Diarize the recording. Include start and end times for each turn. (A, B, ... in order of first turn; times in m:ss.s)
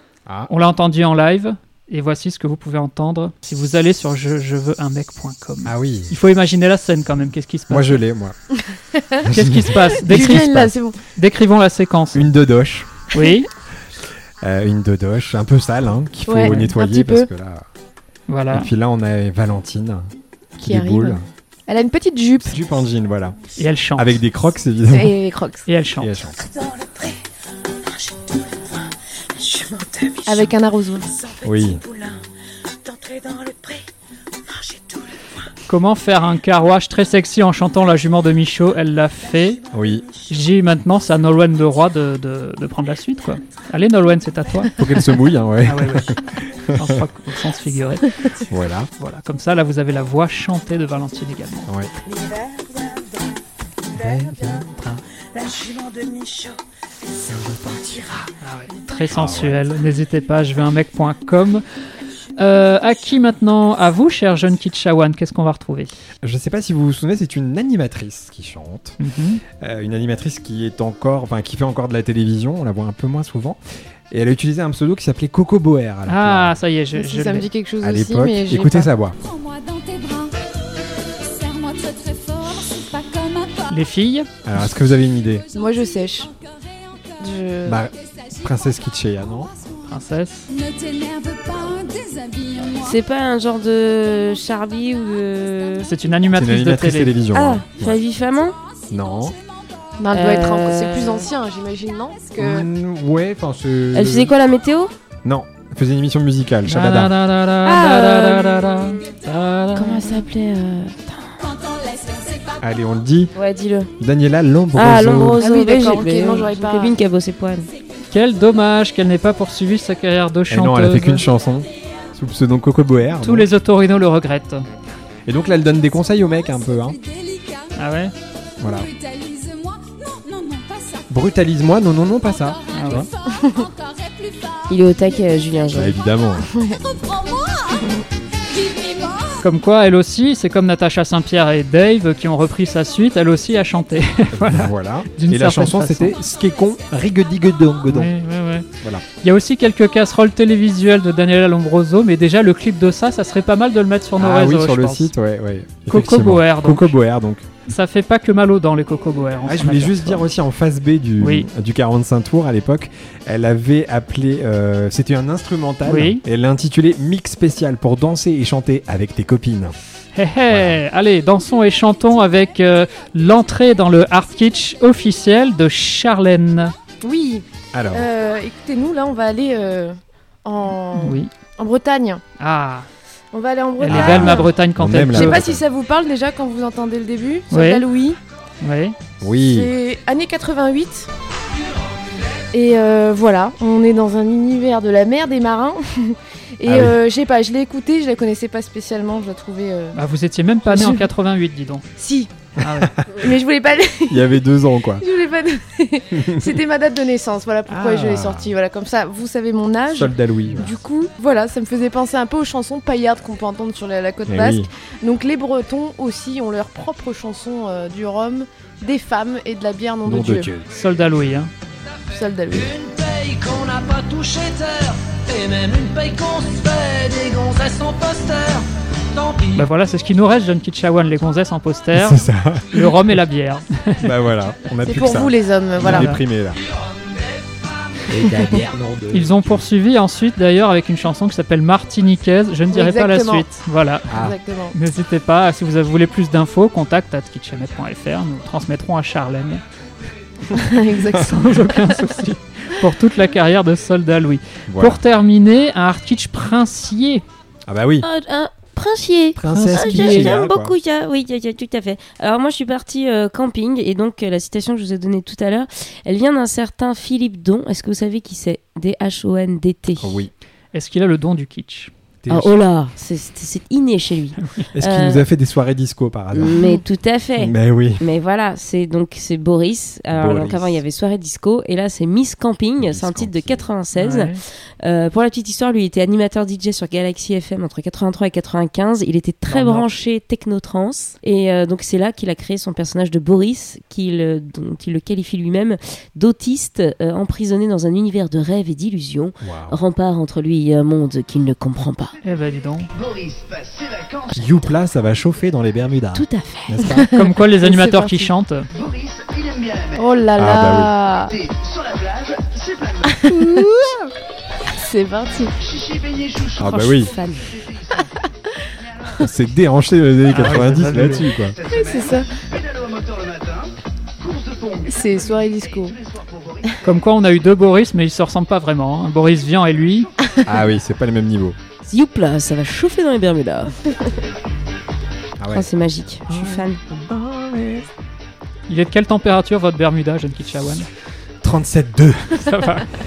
0:00.3-0:00.5 A
0:00.5-0:08.0 B
0:05.6-0:06.2 A
0:07.7-0:08.4 A
0:09.2-0:10.5 A
0:09.3-0:12.3 B
0:10.1-0:11.0 C
0:12.1-0:12.9 A
0:13.1-0:13.5 B
0:14.4-0:17.7 A
0:16.3-0:17.3 C
0:16.4-0:16.7 B
0:18.3-0:18.7 B
0:18.5-0:21.2 A
0:20.6-0:22.5 C
0:22.4-0:23.4 A
0:23.6-0:24.1 B
0:24.0-0:25.2 A
0:24.9-0:25.7 C
0:25.7-0:26.2 B
0:26.0-0:26.4 A
0:26.6-0:27.2 D
0:28.0-0:28.4 D
0:29.4-0:30.5 D
0:30.2-0:31.1 C
0:31.2-0:32.2 D
0:31.4-0:31.8 A
0:32.8-0:33.8 D
0:34.5-0:35.0 D
0:35.7-0:39.6 B
0:39.7-0:40.1 A
0:40.3-0:45.1 B
0:44.8-0:47.0 A
0:45.6-0:48.3 B
0:48.4-0:48.9 A
0:49.0-0:51.7 B
0:52.1-0:53.0 D
0:54.0-0:54.6 D
0:54.0-0:54.6 A
0:54.1-0:54.5 B
0:55.4-0:56.5 D
0:57.8-0:58.1 D
0:58.4-1:01.6 B
0:59.1-0:59.6 A
1:02.4-1:05.9 B
1:06.2-1:09.0 A
1:09.0-1:09.4 B
1:09.6-1:13.6 A
1:14.1-1:16.6 A
1:16.1-1:17.5 B
1:16.9-1:18.9 C
1:17.8-1:19.2 A
1:19.4-1:20.4 E
1:21.2-1:23.6 E
1:23.6-1:24.3 B
1:24.4-1:25.5 A
1:25.5-1:26.3 C
1:27.2-1:27.8 C
1:27.7-1:29.5 A
1:29.8-1:30.6 B
1:30.7-1:32.7 E
1:32.8-1:35.9 F
1:35.8-1:37.2 B
1:36.3-1:38.0 A
1:37.3-1:38.6 F
1:38.9-1:39.4 A
1:40.0-1:42.7 C
1:40.1-1:41.3 F
1:42.4-1:44.3 A
1:43.9-1:44.9 F
1:45.2-1:47.1 A
1:46.6-1:50.0 B
1:47.6-1:48.6 F
1:49.7-1:51.6 F
1:52.6-1:53.3 A
1:53.4-1:53.9 F
1:54.0-1:55.5 A
1:54.7-1:57.7 F
1:55.3-1:56.9 C
1:58.1-2:01.3 B
2:00.5-2:03.5 A
2:03.2-2:04.6 B
2:05.3-2:07.0 A
2:07.7-2:08.1 B
2:08.6-2:08.9 A
2:09.0-2:11.0 E
2:11.1-2:13.1 A
2:12.7-2:13.1 B
2:13.3-2:13.7 C
2:13.9-2:14.5 E
2:14.7-2:16.0 F
2:15.7-2:16.5 A
2:16.4-2:16.8 C
2:16.9-2:17.7 E
2:18.6-2:19.4 E
2:19.4-2:26.2 B
2:24.3-2:28.1 A
2:27.9-2:28.7 B
2:29.2-2:35.1 B
2:34.2-2:37.5 A
2:35.9-2:36.9 B
2:37.7-2:40.2 B
2:39.4-2:49.8 A
2:41.2-2:41.5 B
2:45.8-2:46.2 B
2:50.2-2:56.7 B
2:50.5-2:50.8 A
2:57.0-3:02.2 C
2:57.7-2:58.1 A
3:01.0-3:01.3 B
3:02.4-3:02.9 B
3:03.3-3:04.5 C
3:03.8-3:05.4 B
3:03.9-3:05.6 A
3:05.1-3:08.2 C
3:07.5-3:07.9 B
3:08.6-3:09.0 B
3:09.2-3:09.7 A
3:09.4-3:11.1 C
3:12.5-3:20.0 C
3:16.7-3:17.0 A
3:19.9-3:21.8 B
3:20.7-3:21.0 C
3:22.0-3:22.4 C
3:22.6-3:23.3 A
3:22.6-3:23.0 B
3:23.1-3:24.4 C
3:24.1-3:25.0 A
3:25.0-3:40.5 C
3:27.7-3:28.5 A
3:29.9-3:30.8 A
3:34.3-3:34.7 A
3:40.0-3:40.7 A
3:40.7-3:41.5 B
3:42.1-3:42.8 C
3:42.9-3:49.4 D
3:49.4-3:54.1 B
3:51.9-3:53.0 A
3:54.0-3:56.6 A
3:54.8-3:56.2 C
3:55.8-3:56.2 B
3:58.1-3:58.6 C
3:58.1-3:59.3 A
3:59.1-4:09.6 B
4:02.7-4:03.5 C
4:04.1-4:04.4 A
4:04.1-4:04.8 C
4:10.5-4:11.9 C
4:11.2-4:17.2 B
4:14.7-4:15.0 A
4:17.7-4:18.1 A
4:18.0-4:30.3 F
4:19.4-4:20.8 A
4:19.5-4:20.3 B
4:30.0-4:30.3 A
4:30.7-4:31.9 B
4:32.2-4:32.5 A
4:32.3-4:35.2 F
4:34.4-4:34.7 B
4:34.7-4:36.6 A
4:36.4-5:02.1 F
4:36.6-4:36.8 C
4:37.4-4:38.0 A
4:40.1-4:40.8 A
4:42.8-4:43.6 A
4:43.9-4:44.4 B
4:49.5-4:49.9 B
4:59.4-4:59.8 A
5:02.2-5:02.9 B
5:04.4-5:07.1 A
5:06.2-5:06.9 F
5:06.8-5:08.3 C
5:07.0-5:08.7 B
5:09.9-5:11.4 C
5:10.4-5:10.9 A
5:13.0-5:14.0 C
5:14.7-5:15.6 C
5:16.6-5:17.2 A
5:16.7-5:18.0 C
5:19.2-5:21.6 A
5:20.3-5:21.3 B
5:21.7-5:22.3 C
5:24.8-5:26.0 C
5:26.8-5:30.1 B
5:30.4-5:31.6 A
5:31.8-5:34.1 F
5:35.4-5:35.6 A
5:35.5-5:36.9 F
5:37.0-5:37.5 C
5:38.7-5:40.9 B
5:41.4-5:42.8 A
5:42.5-5:42.9 B